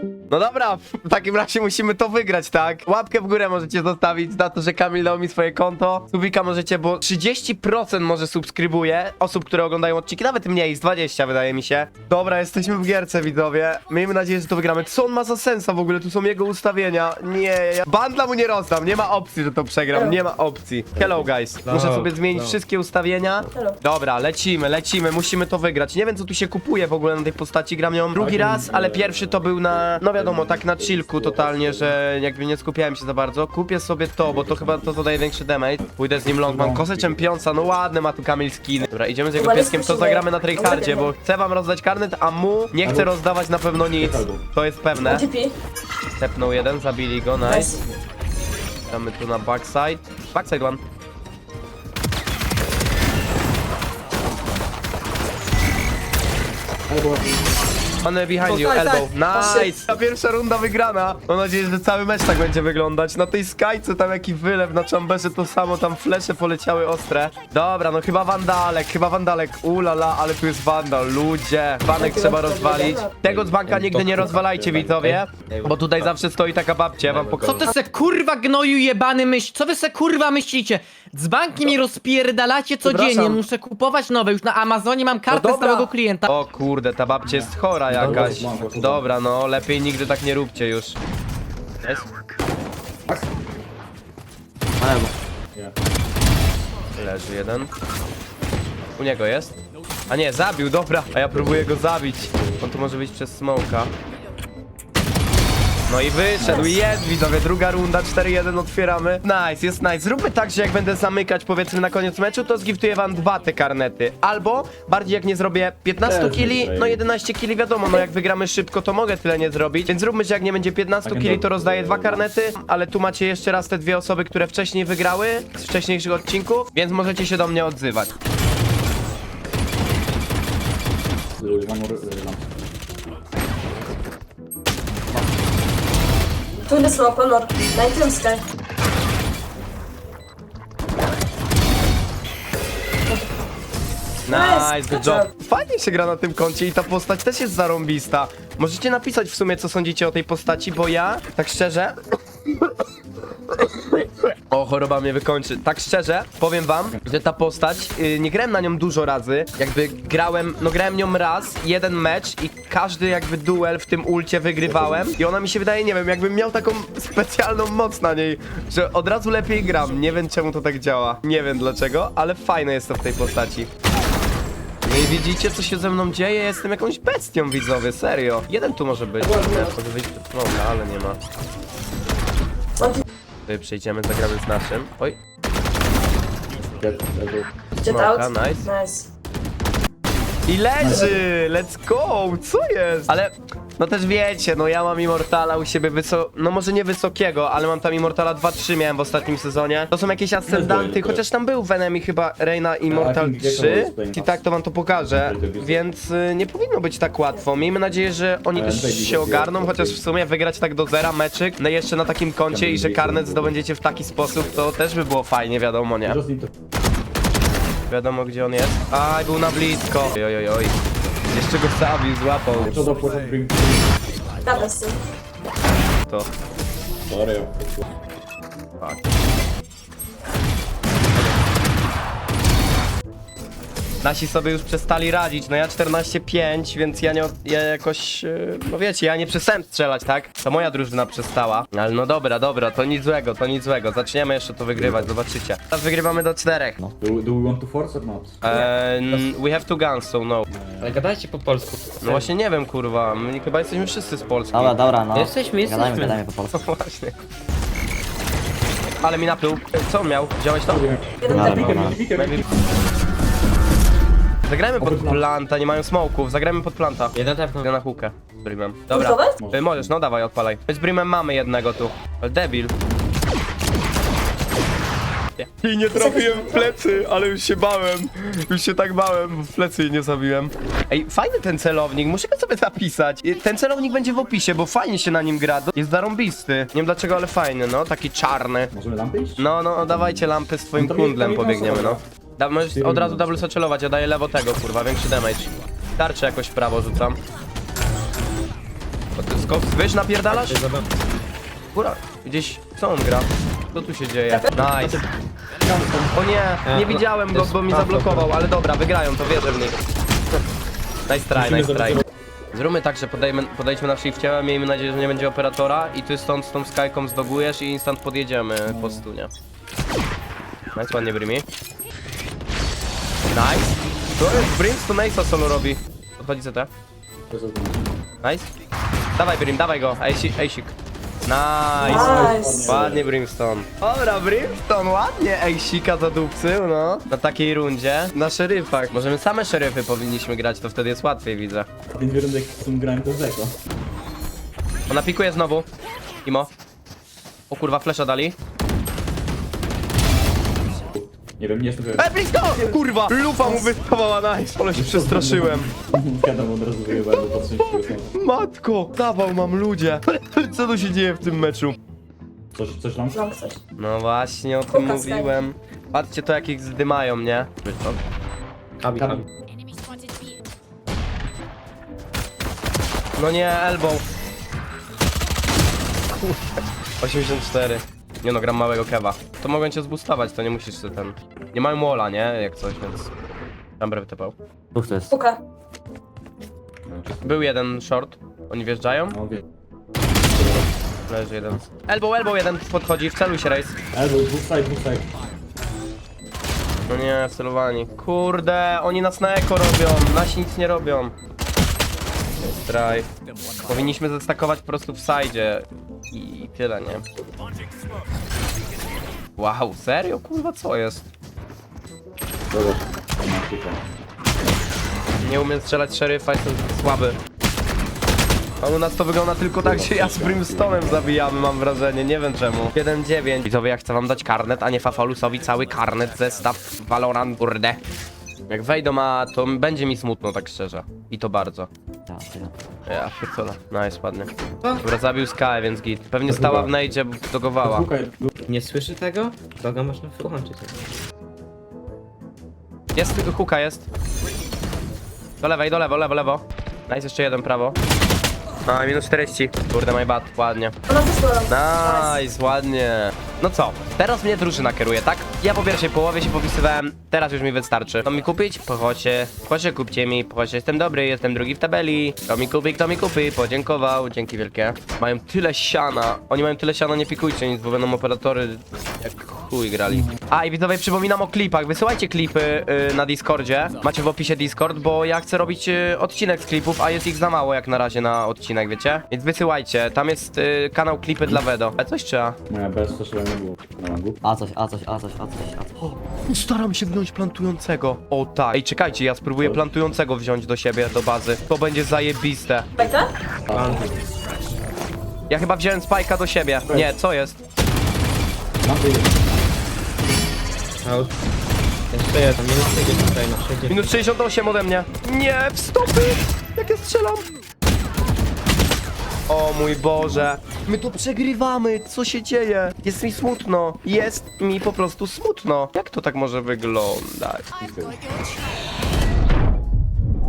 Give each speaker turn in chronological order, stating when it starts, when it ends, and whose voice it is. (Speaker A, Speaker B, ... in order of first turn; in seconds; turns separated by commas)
Speaker A: 0.3-45.2, Speaker B: 20.9-21.3, Speaker C: 21.6-22.6, Speaker B: 28.1-31.9, Speaker B: 34.2-35.2, Speaker B: 35.8-37.7, Speaker D: 39.4-41.1, Speaker B: 42.8-43.2, Speaker B: 43.9-44.4, Speaker D: 45.0-45.5, Speaker A: 46.2-47.7, Speaker D: 47.4-47.8, Speaker A: 48.9-50.8, Speaker B: 56.9-57.3, Speaker A: 58.0-77.7, Speaker D: 58.4-59.8, Speaker D: 71.9-73.1, Speaker B: 73.2-75.3, Speaker E: 75.5-76.0, Speaker E: 77.1-86.3, Speaker A: 82.8-83.4, Speaker A: 85.3-91.0, Speaker B: 87.2-89.1, Speaker F: 94.8-95.1, Speaker A: 96.9-97.7, Speaker A: 99.0-99.5, Speaker A: 100.1-103.9, Speaker B: 101.3-102.8, Speaker A: 105.9-128.1, Speaker B: 106.4-106.7, Speaker B: 116.0-117.0, Speaker B: 121.0-122.3, Speaker B: 131.4-132.4, Speaker D: 136.7-138.4, Speaker D: 143.1-143.4, Speaker A: 144.2-151.9, Speaker D: 144.3-145.3, Speaker A: 153.6-173.7, Speaker B: 164.6-165.1, Speaker A: 174.8-181.2, Speaker B: 179.2-179.7, Speaker A: 183.4-185.2, Speaker B: 186.8-187.5, Speaker D: 187.8-189.1, Speaker A: 187.8-188.7, Speaker A: 190.5-216.2, Speaker B: 190.8-191.2, Speaker B: 200.4-201.2, Speaker B: 202.9-204.4, Speaker B: 205.0-205.8, Speaker B: 208.5-210.0, Speaker B: 212.5-213.6, Speaker B: 216.0-216.5, Speaker A: 217.9-220.7, Speaker A: 221.3-222.9, Speaker B: 222.5-223.9, Speaker D: 224.4-225.0, Speaker B: 227.1-227.8, Speaker A: 234.0-246.8, Speaker B: 244.7-245.1, Speaker B: 247.0-249.2, Speaker A: 248.4-250.4, Speaker B: 250.5-251.0, Speaker C: 250.8-252.3, Speaker A: 252.0-254.8, Speaker F: 254.5-256.6, Speaker C: 255.1-256.2, Speaker A: 256.5-257.2, Speaker A: 259.0-260.9, Speaker B: 260.7-262.4, Speaker D: 261.2-261.7, Speaker F: 261.3-262.0, Speaker A: 262.1-262.4, Speaker A: 264.5-272.7, Speaker B: 264.8-265.2, Speaker C: 267.1-267.7, Speaker D: 268.9-269.3, Speaker B: 269.4-269.9, Speaker A: 275.5-288.7, Speaker D: 275.9-277.1, Speaker B: 288.7-292.0, Speaker A: 289.4-297.2, Speaker B: 292.7-293.4, Speaker A: 299.2-300.6, Speaker C: 300.3-300.9, Speaker A: 301.7-305.0, Speaker B: 304.5-305.0, Speaker B: 305.6-306.2, Speaker A: 306.1-309.8, Speaker C: 306.6-308.3, Speaker A: 311.1-312.0, Speaker A: 312.5-319.3, Speaker B: 318.6-319.0, Speaker A: 320.7-321.4, Speaker A: 323.3-326.7, Speaker B: 327.3-327.9, Speaker A: 328.2-328.5, Speaker A: 329.2-330.7, Speaker A: 331.2-341.7, Speaker B: 331.7-333.1, Speaker D: 331.8-332.7, Speaker B: 341.9-343.6, Speaker A: 344.9-345.7, Speaker A: 346.2-346.5, Speaker A: 347.5-348.4, Speaker B: 350.9-352.1, Speaker A: 352.0-355.7, Speaker B: 354.7-358.1, Speaker A: 358.1-361.8, Speaker B: 362.5-363.2, Speaker D: 363.1-363.6, Speaker A: 363.8-368.0, Speaker D: 364.7-365.4, Speaker C: 368.8-369.2, Speaker B: 368.9-369.2, Speaker A: 373.2-374.0, Speaker A: 376.1-383.1, Speaker A: 383.8-384.3, Speaker F: 384.7-385.1, Speaker D: 385.1-385.4, Speaker B: 386.9-387.4, Speaker A: 387.2-389.2, Speaker B: 389.1-389.4, Speaker B: 390.4-390.6, Speaker A: 391.1-393.7, Speaker B: 393.9-395.1, Speaker A: 396.9-401.1, Speaker A: 402.4-403.1, Speaker A: 403.6-407.0, Speaker A: 409.4-411.1, Speaker B: 412.5-413.8, Speaker A: 415.2-417.2, Speaker A: 418.6-427.8, Speaker B: 419.6-421.2, Speaker A: 428.5-431.7, Speaker F: 432.1-432.5, Speaker A: 432.9-437.9, Speaker B: 436.2-436.9, Speaker B: 437.6-438.3, Speaker C: 438.5-440.8, Speaker A: 442.9-443.9, Speaker A: 445.4-447.8, Speaker A: 448.6-450.8, Speaker D: 450.9-452.2, Speaker A: 451.5-482.4, Speaker B: 469.9-470.1, Speaker B: 482.5-484.2, Speaker F: 484.2-485.7, Speaker A: 485.8-492.7, Speaker B: 489.4-489.6, Speaker D: 492.8-493.1, Speaker B: 493.5-494.1, Speaker A: 495.3-497.4, Speaker B: 496.6-496.9, Speaker B: 498.6-499.2, Speaker C: 500.8-501.1, Speaker C: 501.9-504.0, Speaker A: 503.7-507.2, Speaker A: 509.3-517.4, Speaker B: 517.6-518.0